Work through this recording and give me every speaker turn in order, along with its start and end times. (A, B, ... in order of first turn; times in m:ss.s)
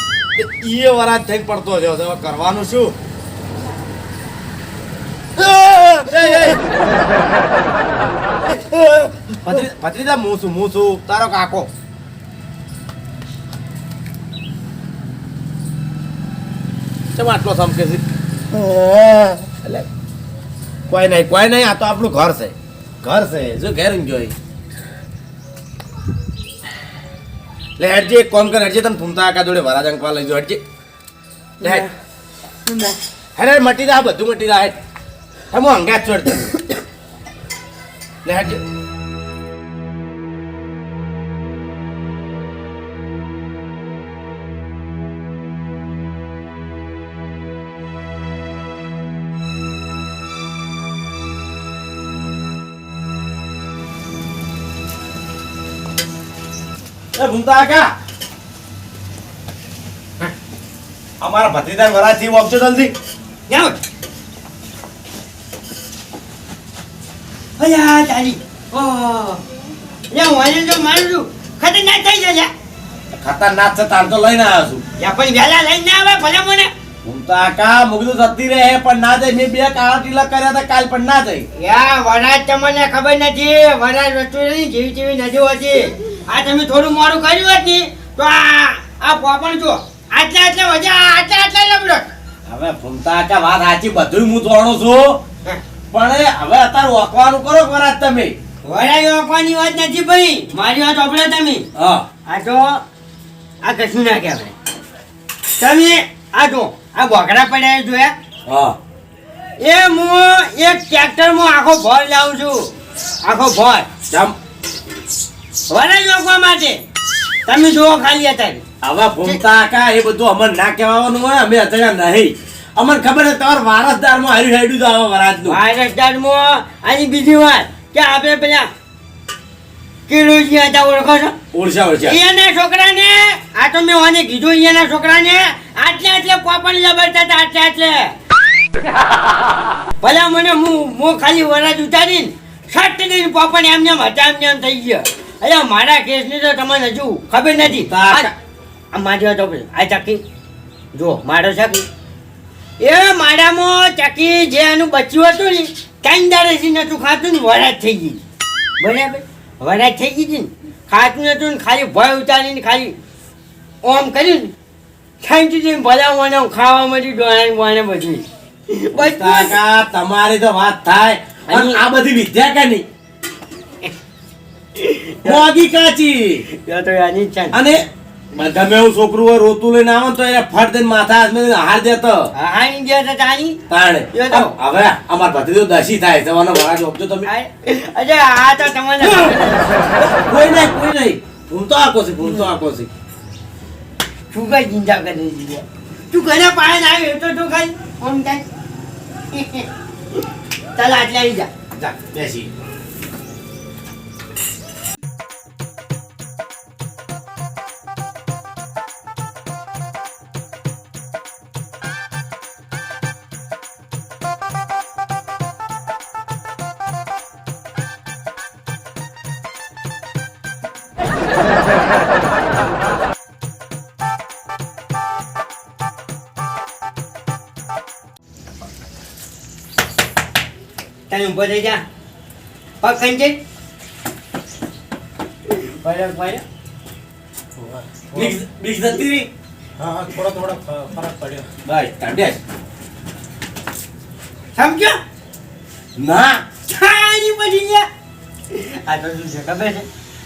0:00.4-0:03.0 A
0:05.4-0:06.6 A
0:08.5-0:11.7 A
0:17.1-0:18.0 A
0:18.5-0:19.4 B
0:20.9-0:24.3 A
0:27.8-0:30.6 A
0:31.6-0:31.9 A
0:33.4-0:34.8 A
0:35.5-0:36.6 A
0:38.2-0:38.6 A
0:57.1-0:57.9 A
1:01.2-1:02.9 A
1:03.5-1:03.8 C
1:07.6-1:09.4 C
1:10.1-1:12.5 C
1:13.1-1:14.8 A
1:15.0-1:16.7 C
1:17.0-1:21.5 A
1:21.5-1:32.1 C
1:32.4-1:35.2 A
1:35.9-1:38.4 A
1:38.6-1:41.7 C
1:41.7-1:42.0 A
1:42.2-1:42.8 C
1:43.6-1:44.5 C
1:45.6-1:48.1 C
1:48.5-1:48.8 A
1:49.6-1:52.7 C
1:53.2-1:53.9 C
1:54.1-1:54.3 A
1:55.7-1:56.8 C
1:57.4-1:58.6 C
1:58.8-2:05.6 A
2:05.4-2:08.7 C
2:10.1-2:11.3 C
2:11.5-2:12.2 A
2:12.0-2:18.1 C
2:20.0-2:28.3 C
2:27.6-2:28.3 A
2:28.9-2:30.2 C
2:30.9-2:31.9 C
2:32.8-2:38.2 C
2:38.8-2:43.0 C
2:43.8-2:44.5 C
2:45.2-2:49.5 C
2:48.9-2:52.8 A
2:51.5-2:51.8 C
2:54.8-2:55.4 C
2:55.2-2:56.4 A
2:56.5-2:57.6 C
2:57.5-2:57.8 A
2:58.3-3:02.3 A
3:02.3-3:03.6 C
3:03.7-3:07.3 A
3:04.1-3:04.5 C
3:07.2-3:09.6 C
3:09.0-3:09.4 A
3:10.0-3:12.9 A
3:14.3-3:18.4 C
3:19.3-3:19.6 C
3:20.7-3:21.5 C
3:21.7-3:22.5 A
3:51.1-3:51.8 C
3:52.8-3:53.4 C
3:55.5-3:56.4 C
3:57.6-3:58.4 B
3:58.1-3:59.3 A
3:59.8-4:01.5 B
4:01.6-4:02.4 A
4:04.5-4:05.0 C
4:06.0-4:06.4 A
4:06.7-4:07.9 C
4:08.5-4:09.9 C